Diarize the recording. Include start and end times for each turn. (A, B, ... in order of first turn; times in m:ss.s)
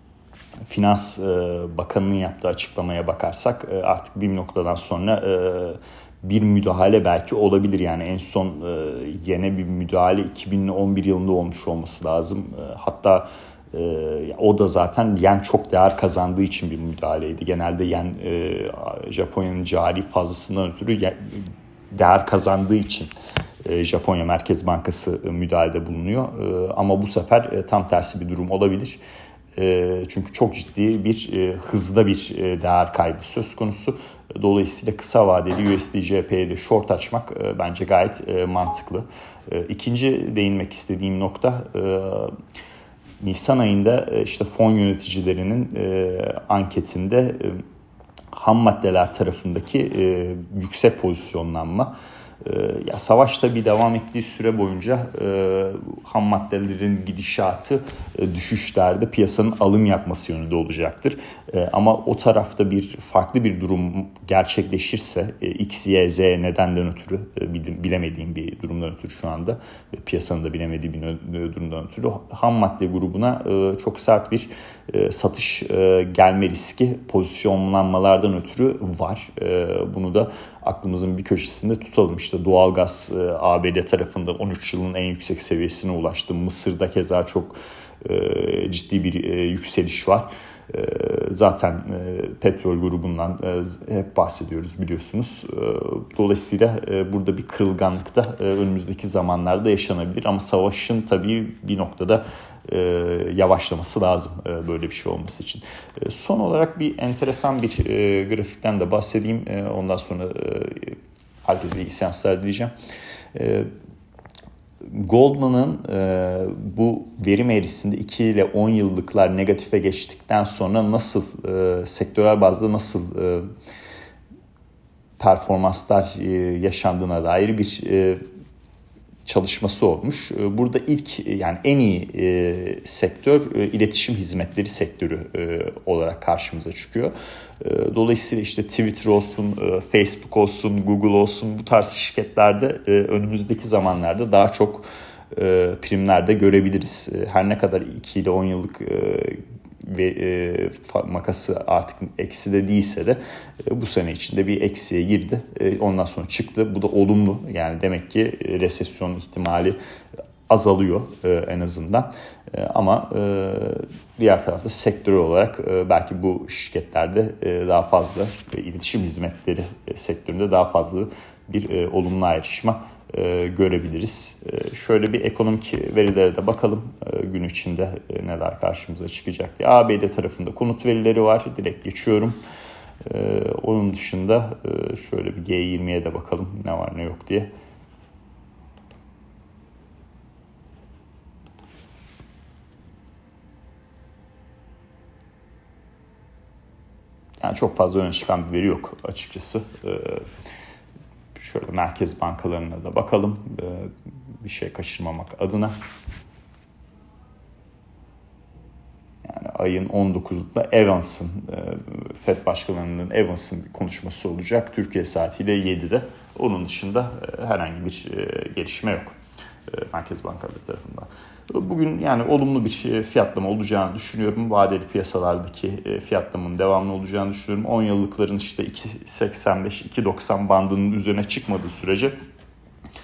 0:00.7-0:23.1 A
0:23.6-0:29.0 A
0:29.6-0:42.3 A
0:43.2-0:47.6 A
0:48.3-1:52.7 A
1:53.3-1:53.7 A
1:54.8-2:03.4 A
2:05.2-2:08.2 A
2:09.2-2:39.8 A
2:40.5-3:02.4 A
3:03.0-3:07.5 A
3:17.4-3:20.2 A
3:21.3-3:25.8 A
3:29.2-3:39.1 A
3:39.7-3:52.1 A